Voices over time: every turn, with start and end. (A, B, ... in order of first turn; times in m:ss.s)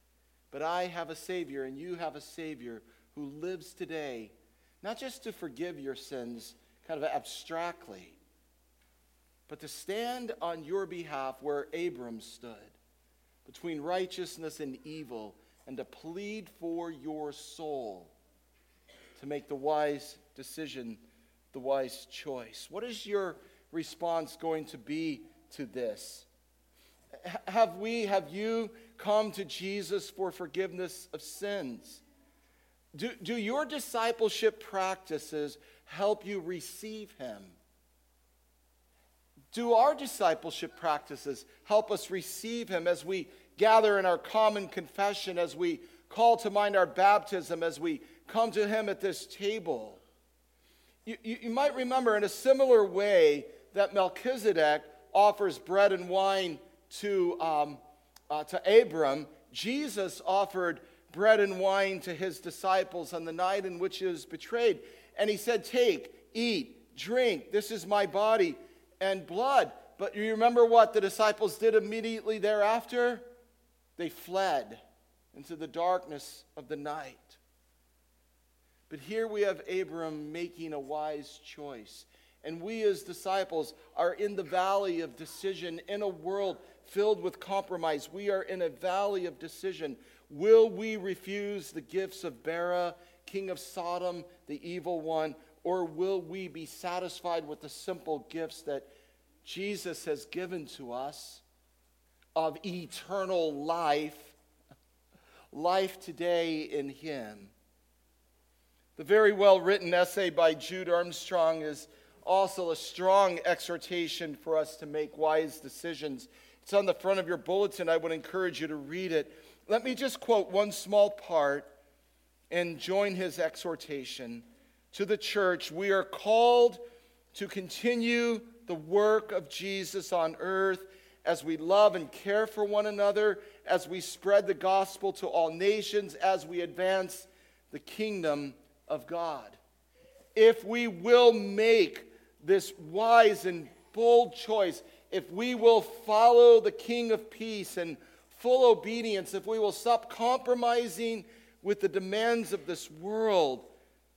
0:00.5-0:08.2 A
0:09.5-0:12.8 A
0:13.4-0:18.1 A
0:19.2-0:21.0 A
0:21.5-0:26.3 A
0:27.2-0:32.0 A
0:32.9-0:37.6 A
0:39.5-0:50.0 A
0:51.0-1:13.2 A
1:14.0-1:14.8 A
1:15.3-1:17.4 A
1:18.9-1:38.9 A
1:39.4-1:41.4 A
1:42.4-1:44.4 A
1:45.5-1:47.5 A
1:49.0-2:01.7 A
2:02.5-2:06.8 A
2:07.3-2:19.6 A
2:20.3-2:33.7 A